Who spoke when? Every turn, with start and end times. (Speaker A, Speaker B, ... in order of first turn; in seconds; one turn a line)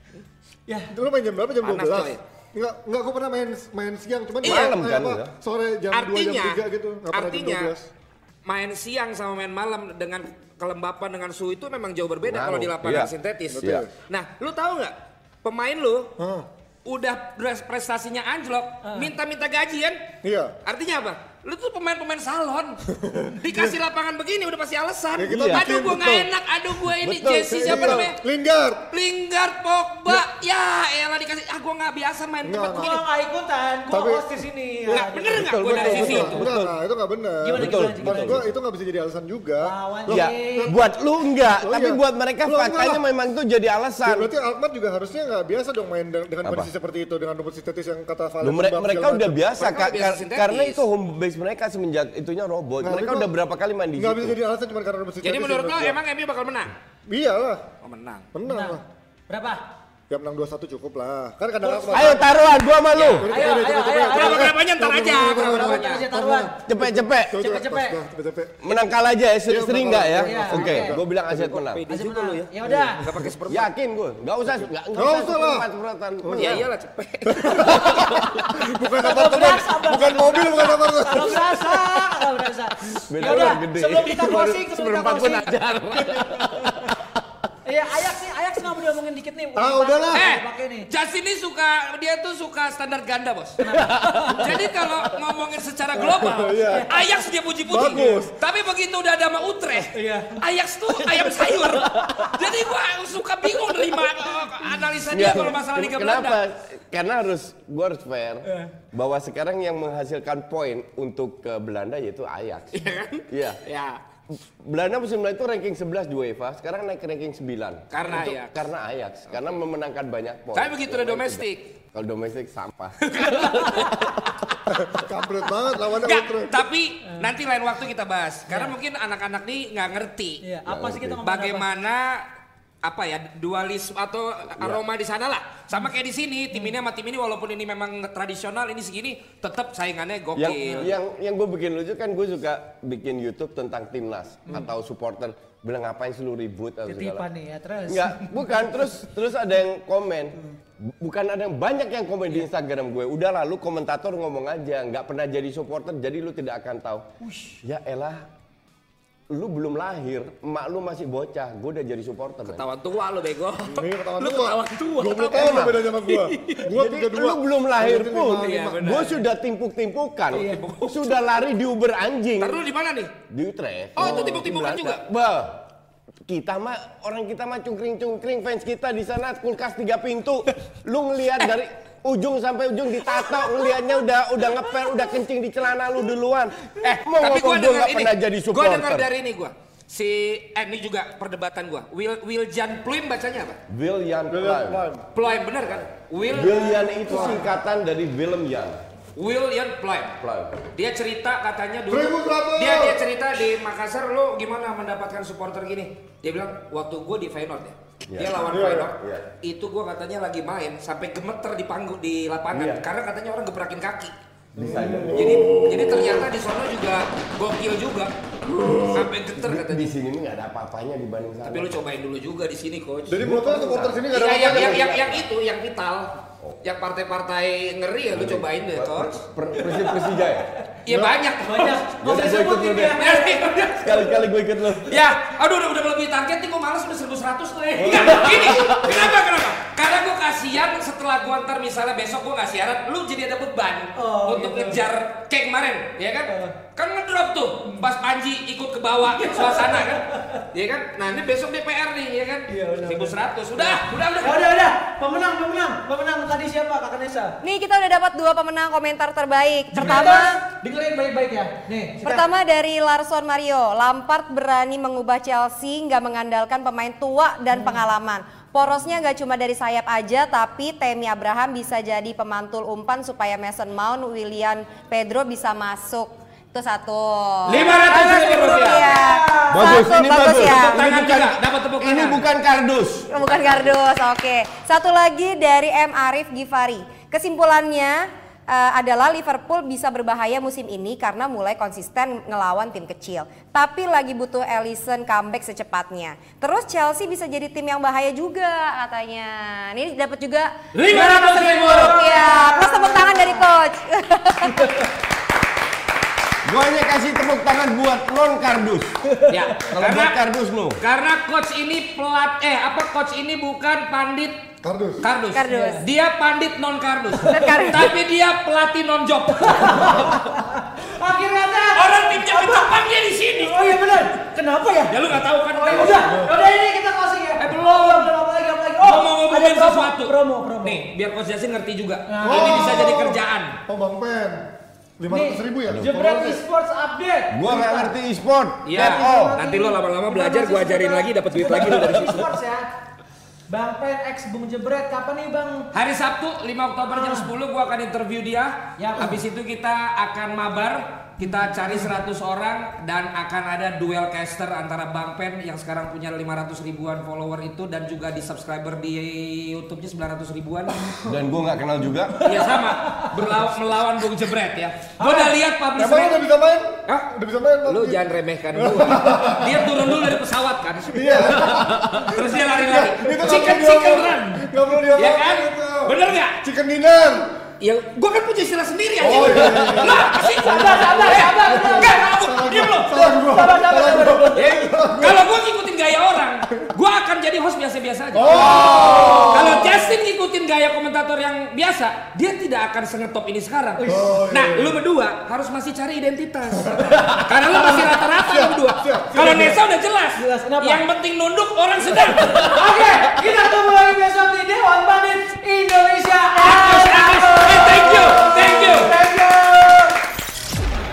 Speaker A: 0.7-0.9
Speaker B: 0.9-7.9
Speaker C: 1.6-2.2
Speaker D: 4.4-5.3
Speaker C: 4.4-4.8
Speaker C: 5.9-7.7
Speaker C: 8.4-16.1
Speaker D: 12.2-13.8
Speaker B: 13.5-13.9
Speaker B: 16.2-16.4
Speaker C: 16.8-20.0
Speaker A: 18.8-19.1
Speaker B: 20.2-20.5
Speaker C: 20.6-22.8
Speaker B: 22.9-23.8
Speaker C: 23.3-28.2
Speaker B: 25.2-26.2
Speaker D: 25.3-25.7
Speaker D: 27.0-28.1
Speaker B: 27.2-28.9
Speaker C: 28.9-33.0
Speaker B: 32.4-32.9
Speaker A: 32.7-36.4
Speaker B: 33.9-34.2
Speaker B: 34.9-40.9
Speaker C: 34.9-36.5
Speaker D: 35.4-36.7
Speaker A: 37.4-38.4
Speaker D: 37.5-38.4
Speaker A: 39.6-40.7
Speaker D: 40.1-44.3
Speaker B: 41.5-43.0
Speaker B: 44.0-49.4
Speaker D: 46.4-46.7
Speaker D: 48.4-54.4
Speaker C: 49.5-50.8
Speaker B: 52.8-53.3
Speaker B: 54.0-56.0
Speaker C: 55.2-56.7
Speaker B: 57.1-57.6
Speaker C: 57.8-58.3
Speaker B: 58.3-58.8
Speaker A: 58.4-59.6
Speaker B: 60.1-62.4
Speaker D: 61.9-63.2
Speaker C: 62.9-63.2
Speaker B: 63.2-68.8
Speaker A: 63.3-64.6
Speaker C: 64.1-66.0
Speaker A: 65.5-66.5
Speaker D: 66.7-67.6
Speaker A: 67.3-68.0
Speaker D: 68.6-71.8
Speaker B: 69.5-71.5
Speaker A: 70.2-71.0
Speaker C: 71.3-73.7
Speaker A: 71.9-73.0
Speaker B: 72.6-72.9
Speaker D: 73.5-76.7
Speaker B: 74.9-75.7
Speaker B: 76.2-76.6
Speaker C: 76.3-77.9
Speaker B: 77.2-82.0
Speaker D: 77.9-78.3
Speaker A: 79.0-85.5
Speaker D: 83.1-87.1
Speaker A: 87.7-90.9
Speaker B: 89.6-90.2
Speaker C: 90.1-93.8
Speaker A: 93.6-94.5
Speaker D: 93.7-94.6
Speaker C: 94.3-106.4
Speaker B: 95.9-97.0
Speaker B: 97.7-98.3
Speaker A: 99.9-100.4
Speaker D: 101.9-102.3
Speaker D: 105.1-112.8
Speaker A: 108.4-108.7
Speaker C: 112.7-114.0
Speaker D: 113.3-113.6
Speaker D: 114.3-124.3
Speaker C: 117.9-118.6
Speaker C: 120.5-121.7
Speaker C: 123.0-124.5
Speaker B: 124.7-126.6
Speaker C: 125.9-130.4
Speaker A: 128.5-128.7
Speaker A: 130.4-131.6
Speaker D: 130.7-131.2
Speaker C: 131.2-132.2
Speaker C: 132.8-140.9
Speaker D: 140.3-147.2
Speaker A: 146.8-149.0
Speaker D: 147.9-157.1
Speaker A: 157.2-157.6
Speaker D: 157.6-158.3
Speaker D: 159.3-162.7
Speaker C: 162.5-166.7
Speaker B: 163.6-168.7
Speaker D: 165.3-165.8
Speaker D: 166.7-172.6
Speaker C: 168.1-169.2
Speaker A: 170.3-170.6
Speaker C: 170.3-171.2
Speaker C: 172.4-173.1
Speaker D: 173.3-175.6
Speaker C: 173.9-175.0
Speaker B: 174.0-174.4
Speaker D: 176.3-189.1
Speaker C: 186.8-193.6
Speaker D: 193.7-194.8
Speaker B: 194.3-195.0
Speaker C: 195.1-197.4
Speaker D: 195.6-198.8
Speaker C: 199.2-200.2
Speaker D: 200.2-200.6
Speaker C: 200.7-214.1
Speaker B: 201.9-203.0
Speaker D: 208.1-209.3
Speaker B: 208.4-208.9
Speaker D: 212.5-212.8
Speaker D: 214.5-215.9
Speaker B: 214.6-216.2
Speaker C: 215.1-218.1
Speaker D: 218.5-221.7
Speaker B: 218.6-218.9
Speaker C: 218.9-219.9
Speaker C: 221.4-223.2
Speaker B: 223.1-224.8
Speaker D: 223.2-225.2
Speaker C: 224.1-229.2
Speaker D: 228.1-230.5
Speaker C: 230.8-231.9
Speaker B: 230.9-231.2
Speaker A: 231.5-234.2
Speaker D: 232.0-233.1
Speaker C: 233.0-234.0
Speaker D: 233.7-235.0
Speaker C: 234.8-254.4
Speaker A: 237.7-238.7
Speaker D: 237.8-239.1
Speaker A: 243.9-244.8
Speaker A: 246.3-246.5
Speaker A: 249.1-250.4
Speaker A: 252.5-257.4
Speaker E: 257.4-260.4
Speaker A: 259.7-262.2
Speaker E: 262.0-280.8
Speaker A: 267.5-267.8
Speaker C: 277.5-278.9
Speaker A: 277.5-279.9
Speaker D: 279.5-283.8
Speaker C: 280.4-282.3
Speaker E: 283.1-301.1
Speaker A: 300.7-303.4
Speaker C: 300.8-302.0
Speaker E: 301.7-304.8
Speaker A: 304.5-304.9
Speaker D: 306.4-309.0
Speaker A: 309.1-309.5
Speaker C: 309.3-310.2
Speaker D: 309.6-310.8
Speaker C: 310.8-314.4
Speaker B: 314.6-315.0
Speaker C: 315.0-320.1
Speaker E: 315.3-315.9
Speaker A: 315.5-315.8
Speaker E: 317.2-317.9
Speaker A: 317.3-317.7
Speaker A: 319.4-322.8
Speaker C: 321.7-324.0
Speaker A: 323.3-325.0
Speaker C: 324.9-326.2
Speaker A: 325.5-330.8
Speaker B: 325.8-326.4
Speaker C: 327.4-328.1
Speaker C: 328.8-333.6
Speaker A: 332.1-332.9
Speaker B: 332.2-334.5
Speaker B: 335.0-336.4
Speaker A: 335.1-337.9
Speaker D: 337.3-339.4
Speaker C: 338.6-342.3
Speaker A: 338.7-342.7
Speaker A: 343.5-345.7
Speaker C: 345.7-361.0
Speaker A: 346.9-347.3
Speaker A: 348.8-349.2
Speaker D: 361.0-362.2
Speaker A: 362.1-363.1
Speaker C: 362.2-366.2
Speaker A: 365.0-365.3
Speaker B: 365.8-368.0
Speaker C: 367.6-376.4
Speaker B: 368.5-369.5
Speaker B: 370.9-377.3
Speaker C: 377.6-382.9
Speaker B: 379.0-385.2
Speaker A: 380.2-382.2
Speaker A: 382.8-384.6
Speaker C: 384.3-403.0
Speaker B: 388.1-389.8
Speaker D: 388.3-389.4
Speaker A: 393.8-394.2
Speaker B: 393.9-394.8
Speaker B: 396.6-399.6
Speaker A: 400.1-400.8
Speaker A: 402.3-410.0
Speaker C: 406.4-408.9